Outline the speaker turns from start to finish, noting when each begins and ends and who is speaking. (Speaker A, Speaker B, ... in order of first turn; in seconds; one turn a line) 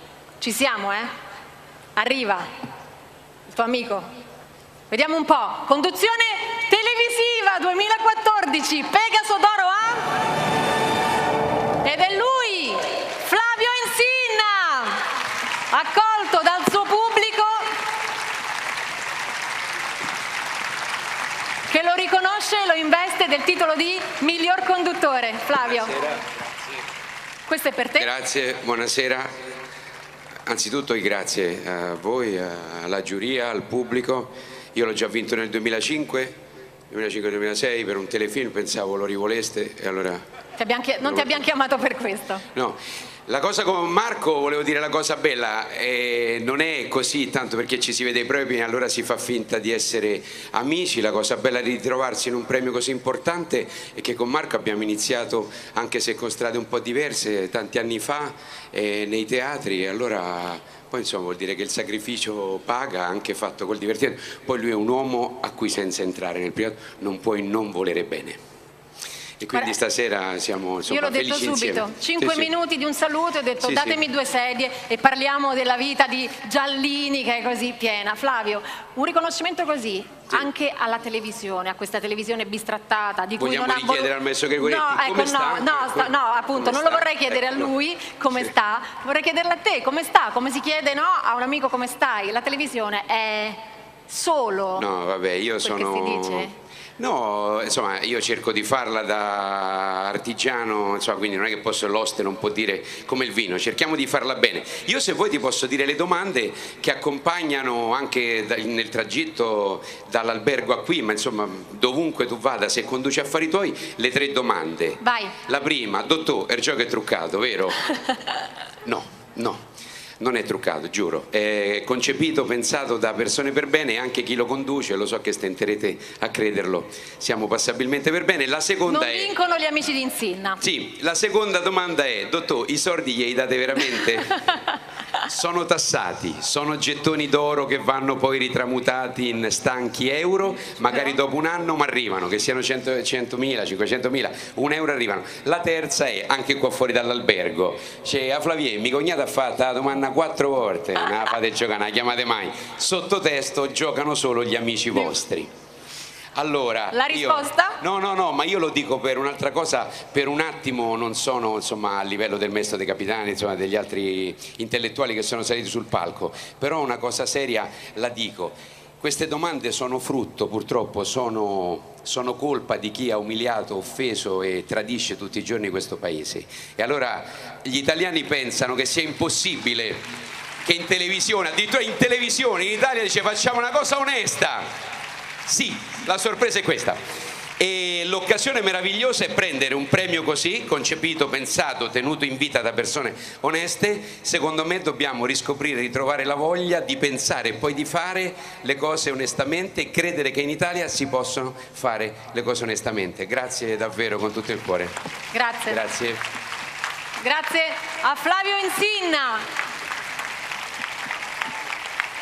Speaker A: 0.4-1.1
Speaker A: 2.0-2.5
Speaker A: 3.5-4.1
Speaker A: 4.9-10.2
Speaker A: 11.8-15.1
Speaker A: 15.7-17.7
Speaker A: 21.7-26.0
Speaker A: 27.5-28.1
Speaker B: 28.0-29.4
Speaker B: 30.5-36.3
Speaker B: 36.9-40.2
Speaker A: 40.6-42.4
Speaker B: 41.0-41.5
Speaker B: 42.5-68.4
Speaker B: 69.4-72.5
Speaker A: 70.9-94.9
Speaker B: 73.6-74.0
Speaker B: 83.4-87.7
Speaker B: 94.8-117.9
Speaker A: 95.6-96.5
Speaker A: 115.0-115.3
Speaker B: 118.8-119.6
Speaker B: 120.2-129.3
Speaker A: 128.9-130.6
Speaker B: 130.6-134.4
Speaker B: 135.2-155.5
Speaker B: 156.4-180.1
Speaker A: 156.9-157.8
Speaker B: 180.7-184.7
Speaker B: 185.4-187.0
Speaker B: 187.6-205.0
Speaker A: 205.3-205.8
Speaker B: 205.7-206.2
Speaker A: 207.2-209.4